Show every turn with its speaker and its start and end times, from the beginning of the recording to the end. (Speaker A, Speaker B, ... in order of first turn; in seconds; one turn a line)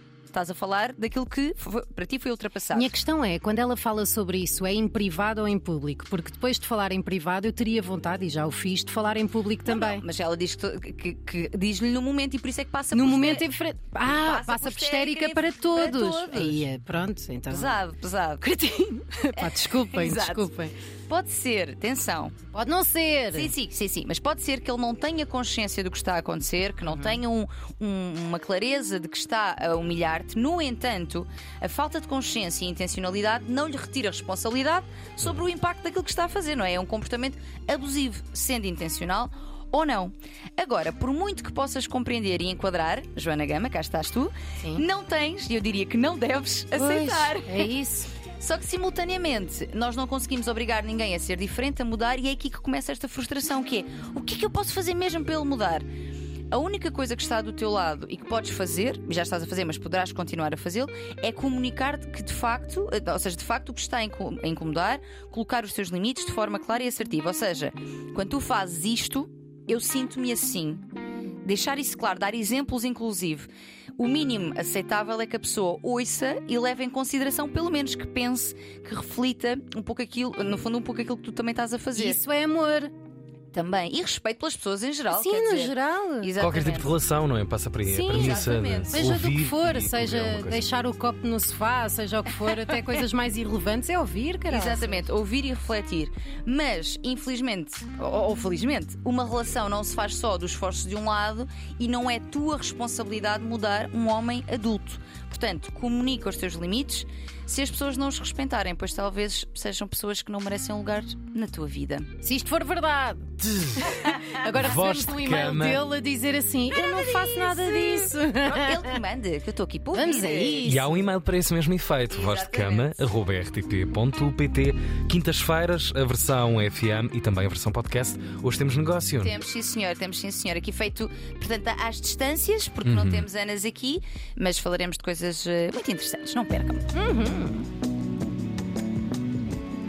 Speaker A: 0.3-2.9
Speaker B: 2.7-10.0
Speaker A: 9.7-13.5
Speaker B: 12.9-17.8
Speaker A: 14.0-16.7
Speaker A: 17.5-18.4
Speaker B: 18.4-20.7
Speaker A: 19.4-20.5
Speaker A: 21.1-22.4
Speaker B: 22.5-23.5
Speaker A: 23.3-47.7
Speaker B: 26.8-27.2
Speaker B: 46.8-48.1
Speaker A: 48.4-55.9
Speaker A: 56.5-70.8
Speaker A: 71.4-82.2
Speaker B: 81.9-82.9
Speaker A: 83.5-87.0
Speaker B: 85.1-86.3
Speaker C: 86.4-90.6
Speaker B: 87.8-95.0
Speaker A: 88.0-89.2
Speaker A: 94.5-112.1
Speaker B: 112.2-119.0
Speaker C: 114.4-115.8
Speaker A: 116.7-120.8
Speaker B: 119.9-121.0
Speaker C: 120.6-129.3
Speaker A: 122.1-123.1
Speaker A: 129.2-136.9
Speaker C: 132.8-133.2
Speaker B: 136.9-137.7